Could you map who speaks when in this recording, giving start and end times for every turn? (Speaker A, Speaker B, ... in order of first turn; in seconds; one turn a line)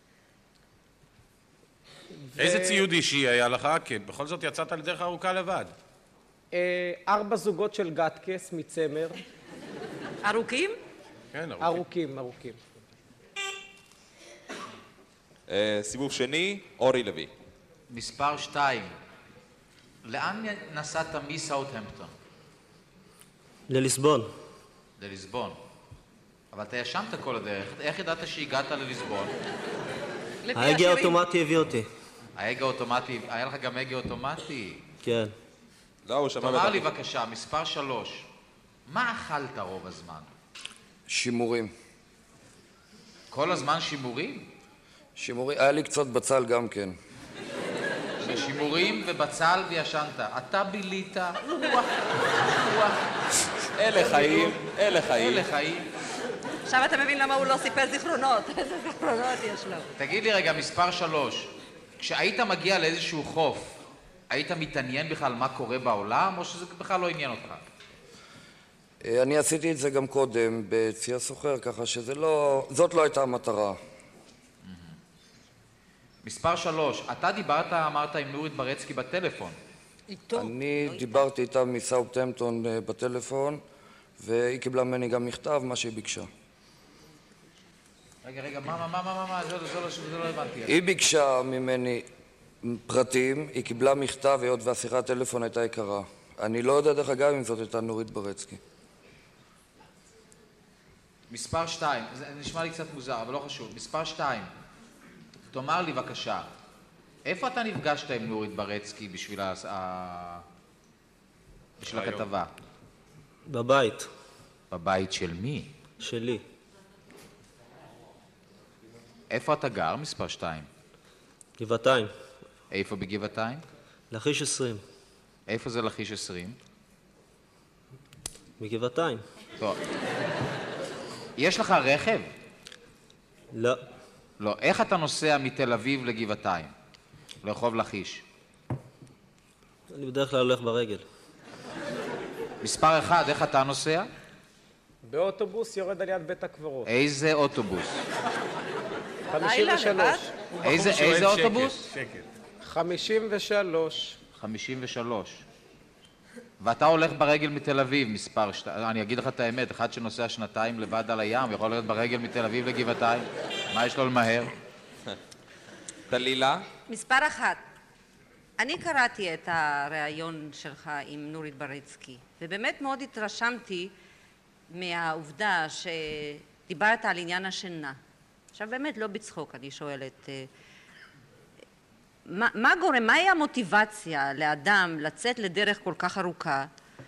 Speaker A: 2.2-2.8
Speaker B: 2.4-5.7
Speaker A: 6.5-9.2
Speaker C: 10.2-10.8
Speaker B: 11.3-11.8
Speaker A: 11.6-12.6
Speaker D: 15.5-17.3
Speaker E: 17.9-18.9
Speaker E: 20.0-22.1
Speaker F: 23.7-24.3
Speaker E: 25.0-25.6
Speaker E: 26.5-29.4
Speaker C: 30.4-31.2
Speaker F: 30.5-31.9
Speaker E: 32.4-34.8
Speaker F: 35.0-35.3
Speaker D: 36.0-36.8
Speaker E: 36.4-38.3
Speaker E: 38.9-40.3
Speaker G: 41.1-41.7
Speaker E: 43.3-44.5
Speaker G: 45.1-47.0
Speaker E: 48.2-53.1
Speaker D: 53.8-55.4
Speaker E: 53.9-54.6
Speaker E: 55.1-55.9
Speaker C: 56.6-59.9
Speaker E: 60.0-63.8
Speaker E: 64.3-67.6
Speaker G: 69.0-73.8
Speaker E: 74.6-75.0
Speaker E: 76.2-79.6
Speaker C: 80.1-81.2
Speaker G: 80.3-83.6
Speaker G: 84.2-86.3
Speaker E: 88.2-90.8
Speaker G: 90.7-92.1
Speaker G: 92.6-98.6
Speaker E: 101.3-104.5
Speaker E: 105.5-106.5
Speaker E: 107.2-110.4
Speaker E: 111.8-112.5
Speaker B: 111.9-112.2
Speaker F: 113.5-114.1
Speaker E: 114.7-115.7
Speaker F: 116.0-116.4
Speaker E: 119.3-120.7
Speaker F: 121.6-122.1
Speaker E: 122.7-123.6
Speaker F: 124.1-124.8
Speaker E: 125.5-126.6
Speaker F: 128.6-129.2
Speaker E: 131.4-132.3
Speaker F: 133.5-133.8
Speaker E: 134.4-136.7
Speaker E: 137.4-138.2
Speaker F: 139.9-141.0
Speaker E: 142.6-144.1
Speaker A: 145.0-146.9
Speaker E: 146.8-148.0
Speaker A: 149.3-150.3
Speaker C: 149.3-150.3
Speaker B: 150.5-152.3
Speaker E: 150.6-151.9
Speaker A: 152.6-154.2
Speaker E: 154.3-155.4
Speaker E: 156.6-164.5
Speaker D: 166.1-166.7
Speaker C: 166.9-167.6
Speaker C: 168.6-173.9
Speaker C: 174.7-178.0
Speaker C: 178.5-180.5
Speaker C: 182.2-186.7